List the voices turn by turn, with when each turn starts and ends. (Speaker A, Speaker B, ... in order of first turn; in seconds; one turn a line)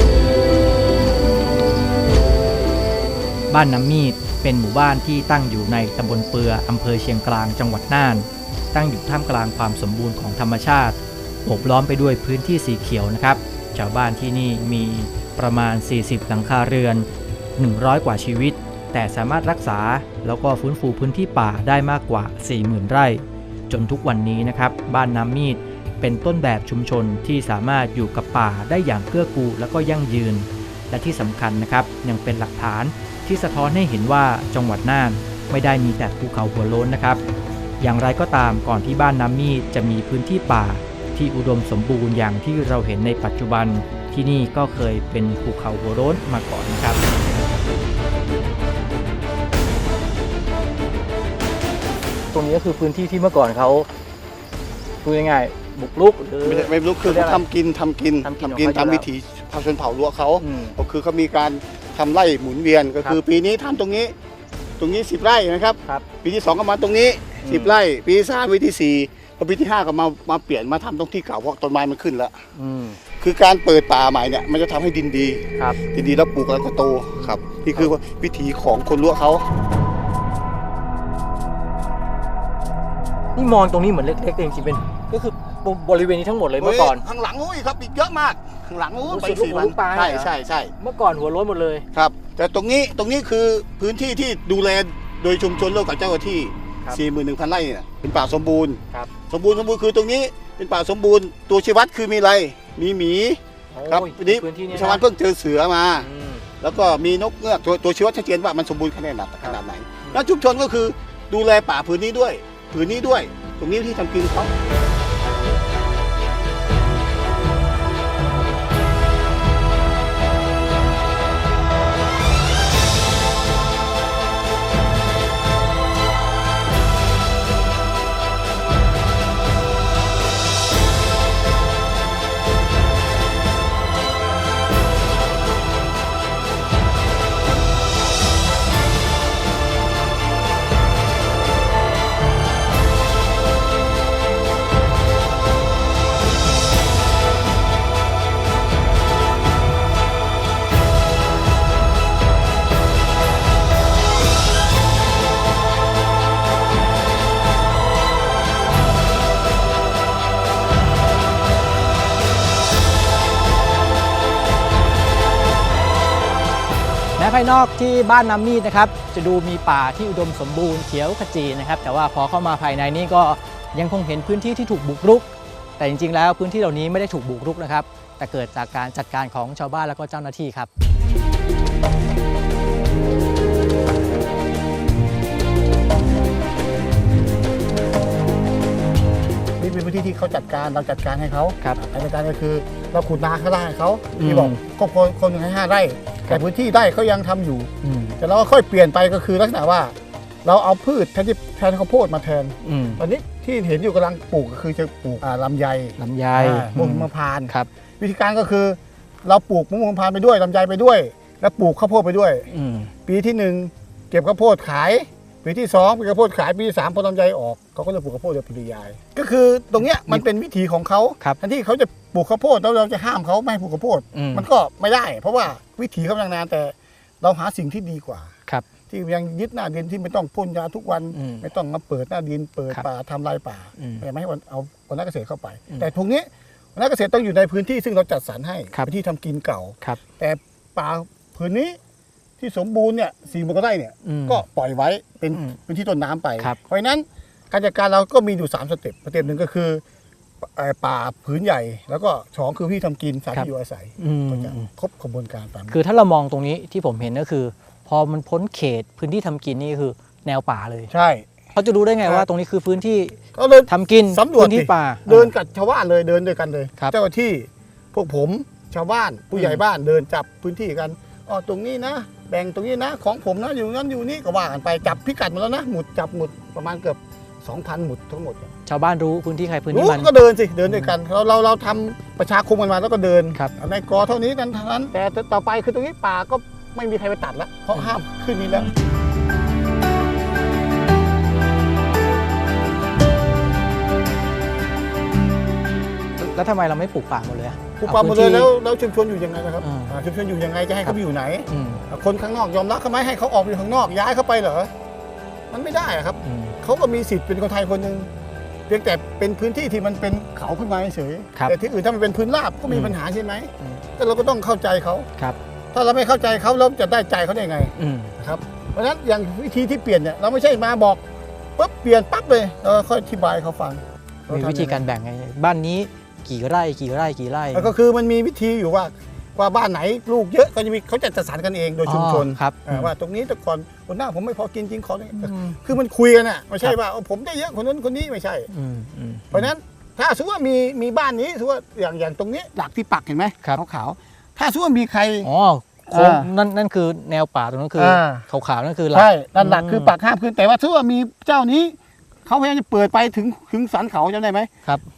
Speaker A: 3.5-37.2
Speaker A: 37.8-47.0
Speaker A: 52.3-53.9
Speaker A: 55.0-57.4
Speaker B: 56.4-64.2
Speaker A: 58.2-59.1
Speaker A: 60.4-60.8
Speaker B: 64.8-72.4
Speaker A: 67.4-67.8
Speaker A: 72.5-73.0
Speaker B: 73.2-79.5
Speaker A: 77.2-77.9
Speaker A: 83.3-87.0
Speaker B: 86.6-90.7
Speaker A: 89.1-91.9
Speaker B: 91.9-106.1
Speaker A: 103.7-105.0
Speaker A: 106.0-106.5
Speaker B: 106.6-114.5
Speaker A: 109.4-110.2
Speaker A: 167.2-180.7
Speaker B: 189.6-212.5
Speaker A: 194.1-194.6
Speaker A: 197.8-198.2
Speaker A: 202.6-203.0
Speaker A: 206.0-207.7
Speaker A: 212.5-212.9
Speaker B: 213.1-228.3
Speaker A: 224.1-224.5
Speaker B: 228.9-241.8
Speaker A: 231.1-231.5
Speaker A: 233.8-234.1
Speaker B: 242.4-249.8
Speaker A: 244.0-244.4
Speaker B: 250.4-255.8
Speaker A: 253.3-254.7
Speaker A: 255.7-260.9
Speaker B: 260.9-261.3
Speaker A: 261.5-265.3
Speaker B: 263.3-278.5
Speaker A: 269.3-269.6
Speaker A: 278.7-280.1
Speaker B: 279.7-288.7
Speaker A: 296.2-298.5
Speaker B: 297.8-304.7
Speaker A: 299.6-299.9
Speaker A: 301.5-301.8
Speaker B: 305.5-308.1
Speaker A: 306.2-306.6
Speaker B: 308.7-315.1
Speaker A: 312.7-313.0
Speaker B: 315.7-321.0
Speaker A: 317.8-318.1
Speaker B: 321.6-324.9
Speaker A: 324.3-327.7
Speaker B: 327.5-338.5
Speaker A: 331.9-332.9
Speaker A: 335.2-335.6
Speaker A: 338.5-339.5
Speaker B: 339.3-345.3
Speaker A: 345.2-349.9
Speaker B: 345.9-346.3
Speaker B: 347.8-348.3
Speaker B: 348.9-354.5